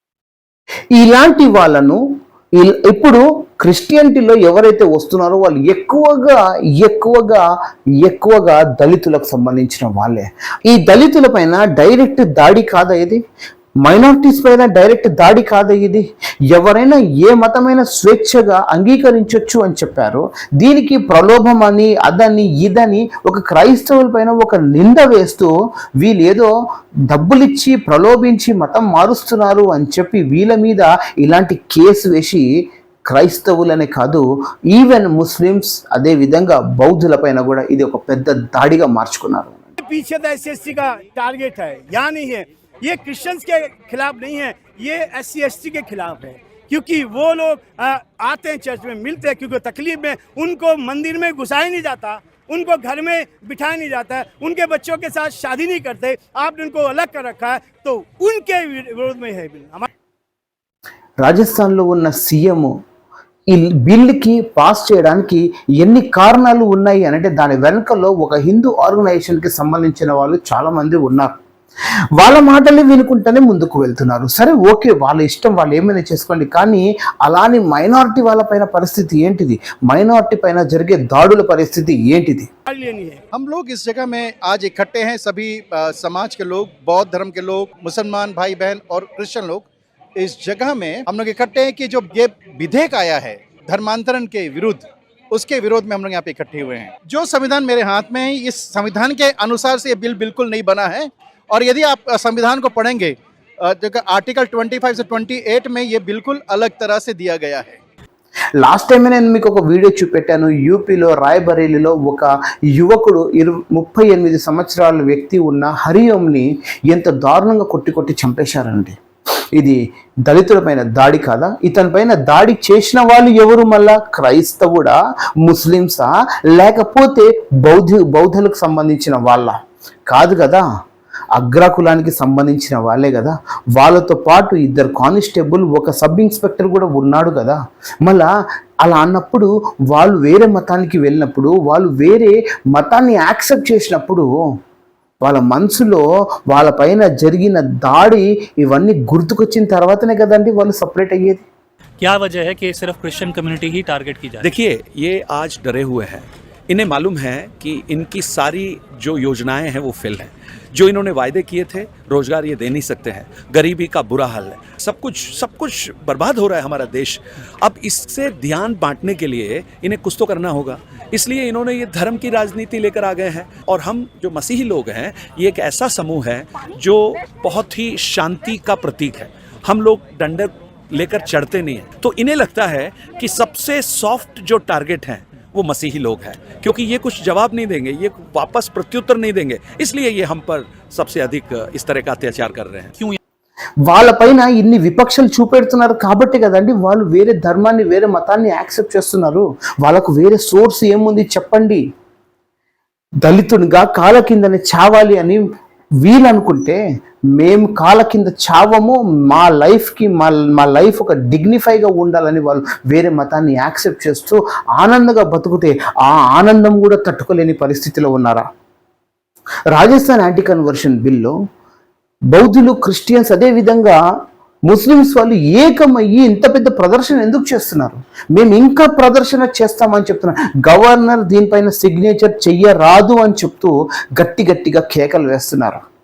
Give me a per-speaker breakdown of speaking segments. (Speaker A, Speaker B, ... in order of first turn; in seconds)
Speaker A: 0.9-2.0, 2.5-7.5, 8.0-13.2, 13.8-26.5, 27.1-39.7, 61.2-62.7, 63.5-71.3, 72.1-82.5, 108.6-119.0, 119.5-130.6, 131.3-138.3, 138.8-144.4, 145.2-151.4, 193.8-201.8, 203.2-205.4, 206.0-206.8, 207.3-218.5, 219.7-221.4, 222.3-224.0, 224.7-235.8
Speaker B: 39.8-59.9, 82.7-83.2
Speaker C: 83.3-107.8
Speaker D: 152.1-154.4
Speaker E: 154.4-192.9